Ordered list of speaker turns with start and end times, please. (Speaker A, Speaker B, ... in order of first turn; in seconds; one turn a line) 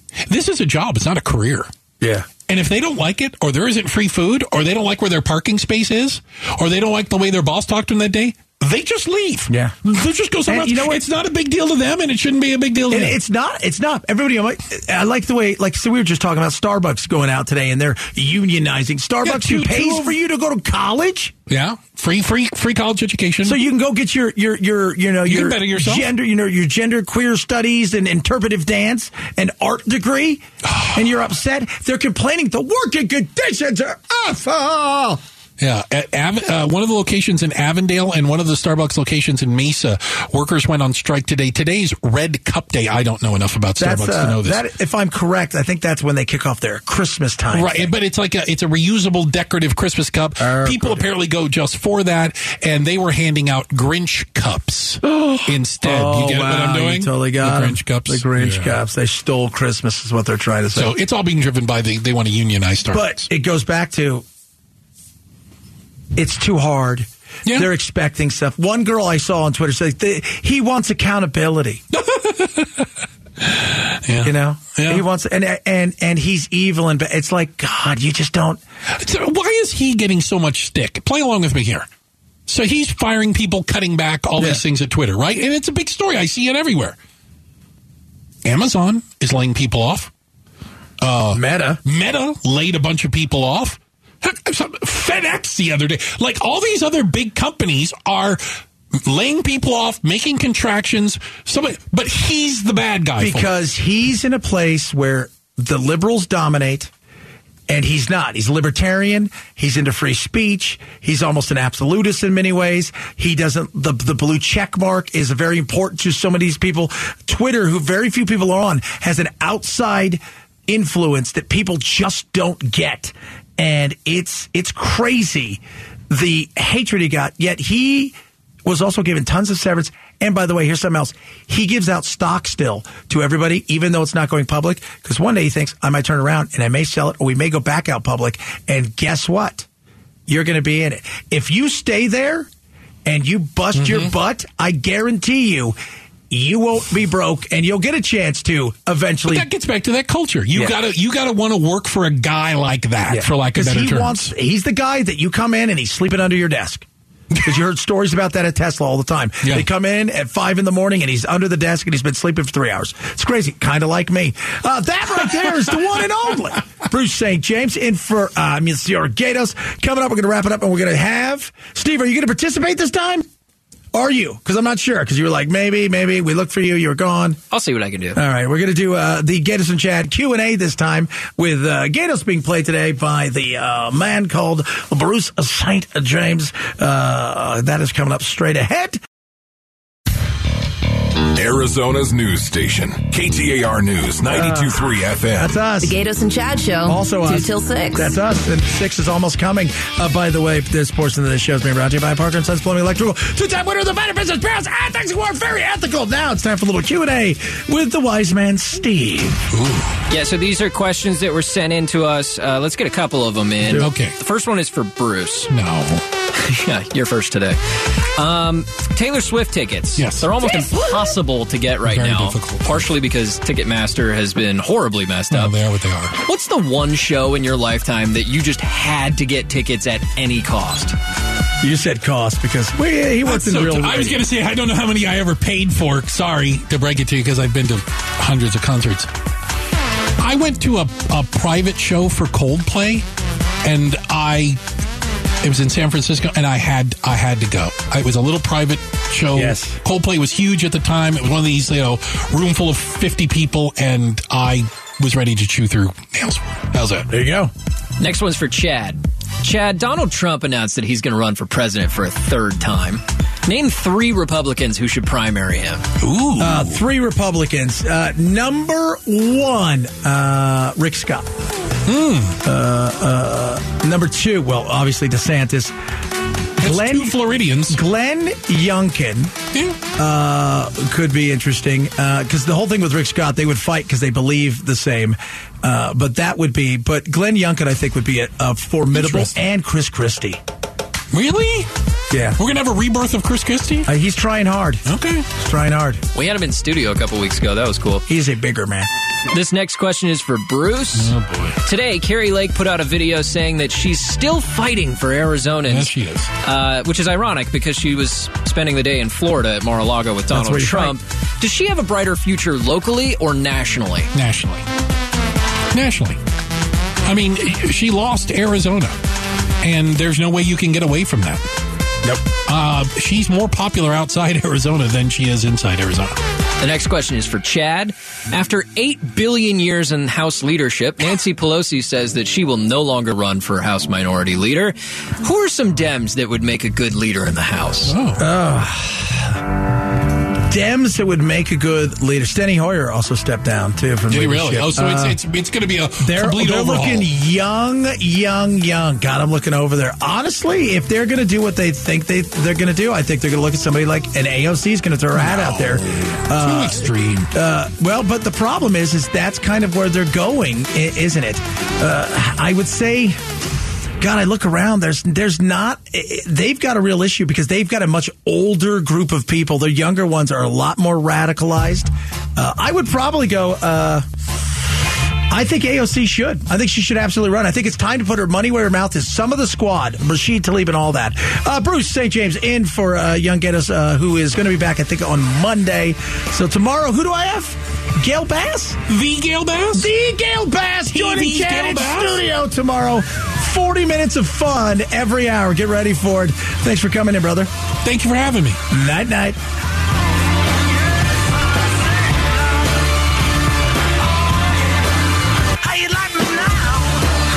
Speaker A: 0.3-1.7
Speaker B: 2.0-2.3
Speaker A: 2.5-13.2
Speaker B: 9.5-9.7
Speaker B: 10.5-11.0
Speaker B: 12.9-21.3
Speaker A: 19.2-20.1
Speaker A: 21.5-23.6
Speaker B: 23.4-35.2
Speaker A: 25.2-26.1
Speaker A: 30.6-31.0
Speaker A: 35.6-44.6
Speaker B: 43.8-47.9
Speaker A: 47.5-58.8
Speaker B: 50.4-51.0
Speaker B: 55.0-60.9
Speaker A: 60.7-63.2
Speaker B: 62.9-64.2
Speaker B: 66.1-71.8
Speaker A: 71.9-72.9
Speaker A: 73.4-75.0
Speaker B: 74.2-78.6
Speaker A: 78.9-81.9
Speaker A: 82.5-87.0
Speaker A: 88.4-90.1
Speaker A: 91.0-98.4
Speaker B: 91.3-91.8
Speaker A: 99.0-103.5
Speaker B: 103.2-106.9
Speaker B: 107.7-139.7
Speaker B: 140.3-142.5
Speaker B: 143.1-145.8
Speaker A: 143.8-144.1
Speaker B: 146.3-149.4
Speaker A: 149.3-154.3
Speaker B: 153.1-156.8
Speaker B: 157.4-173.2
Speaker B: 173.9-177.4
Speaker C: 177.5-178.2
Speaker B: 178.1-189.0
Speaker D: 191.3-195.5
Speaker B: 194.2-194.8
Speaker B: 195.3-196.0
Speaker E: 195.8-198.1
Speaker B: 196.8-209.4
Speaker A: 209.5-210.0
Speaker C: 210.1-215.5
Speaker A: 213.7-214.2
Speaker A: 215.5-216.0
Speaker C: 216.3-217.6
Speaker C: 218.1-225.5
Speaker A: 220.0-220.6
Speaker A: 221.8-222.9
Speaker A: 225.3-226.2
Speaker C: 226.2-230.9
Speaker B: 231.6-234.2
Speaker A: 233.2-239.1
Speaker A: 240.2-243.1
Speaker A: 243.6-244.6
Speaker A: 245.4-257.1
Speaker B: 249.3-249.8
Speaker B: 257.1-257.5
Speaker C: 258.0-265.9
Speaker A: 266.0-266.8
Speaker B: 266.4-271.3
Speaker A: 271.9-272.4
Speaker B: 272.4-275.7
Speaker B: 276.6-277.1
Speaker A: 276.6-277.8
Speaker B: 277.7-279.3
Speaker A: 279.5-279.8
Speaker B: 279.9-290.4
Speaker A: 288.9-289.4
Speaker A: 291.1-291.7
Speaker B: 292.1-292.4
Speaker A: 292.4-293.9
Speaker B: 293.9-296.0
Speaker A: 294.9-295.3
Speaker C: 296.1-298.0
Speaker B: 298.1-298.9
Speaker C: 299.3-314.1
Speaker A: 300.9-301.6
Speaker A: 305.7-306.3
Speaker B: 310.3-310.9
Speaker A: 314.1-314.6
Speaker A: 315.7-316.2
Speaker A: 317.0-319.0
Speaker A: 319.6-321.4
Speaker A: 322.3-326.2
Speaker C: 326.6-337.9
Speaker A: 337.8-338.2
Speaker B: 338.2-339.4
Speaker B: 340.5-345.2
Speaker A: 344.1-347.1
Speaker B: 346.0-363.2
Speaker A: 355.1-357.3
Speaker B: 364.0-374.0
Speaker B: 375.3-388.8
Speaker A: 388.9-389.9
Speaker B: 389.7-397.5
Speaker A: 390.9-392.2
Speaker A: 397.8-398.6
Speaker B: 398.7-399.4
Speaker B: 405.6-407.0